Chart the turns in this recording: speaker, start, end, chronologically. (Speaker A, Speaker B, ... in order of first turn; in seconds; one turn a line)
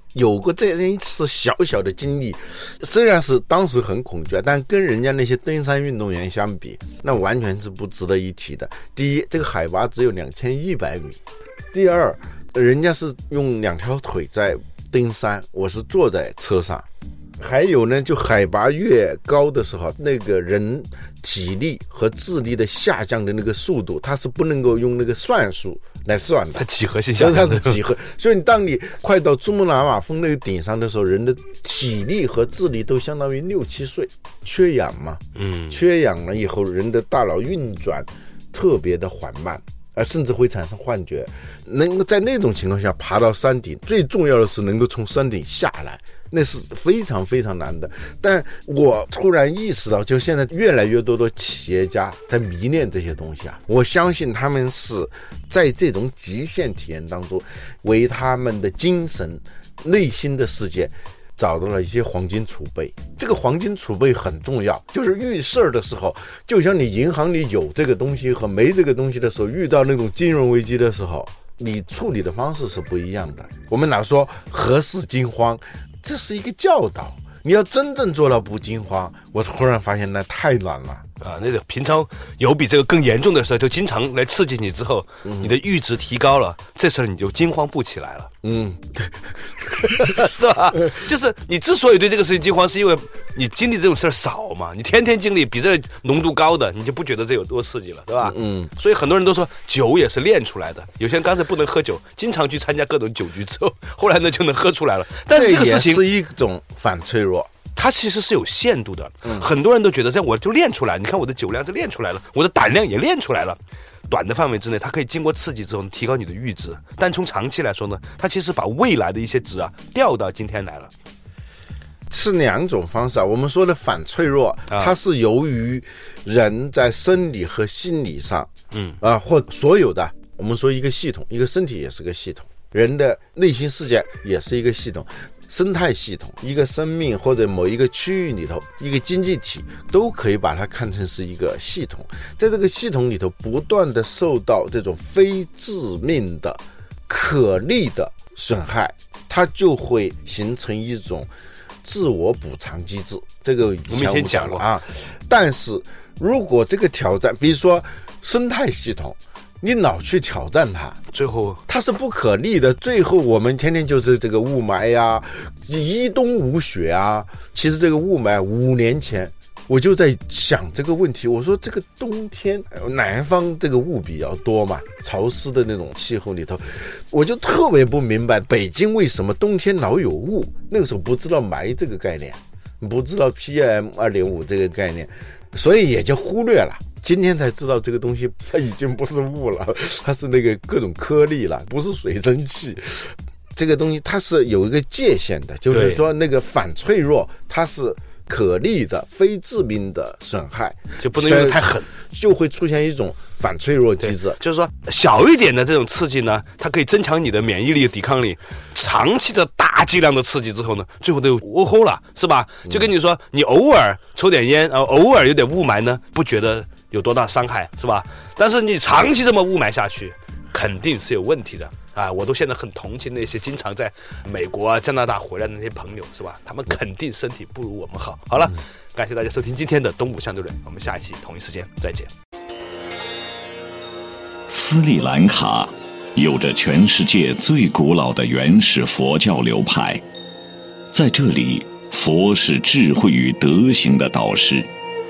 Speaker A: 0.1-11.2
Speaker A: 11.7-16.9
Speaker A: 17.4-81.1
Speaker B: 26.6-27.8
Speaker B: 35.4-35.8
Speaker B: 81.2-88.3
Speaker A: 85.2-85.5
Speaker A: 88.4-90.2
Speaker B: 89.7-106.1
Speaker A: 98.2-98.7
Speaker A: 105.3-107.5
Speaker B: 107.8-120.9
Speaker A: 122.1-128.5
Speaker B: 128.7-129.0
Speaker A: 129.0-151.3
Speaker A: 151.8-161.0
Speaker B: 153.9-154.7
Speaker B: 161.1-161.6
Speaker A: 161.7-204.4
Speaker B: 195.7-196.0
Speaker B: 201.0-201.9
Speaker B: 204.0-232.1
Speaker C: 234.5-240.0
Speaker C: 240.9-244.7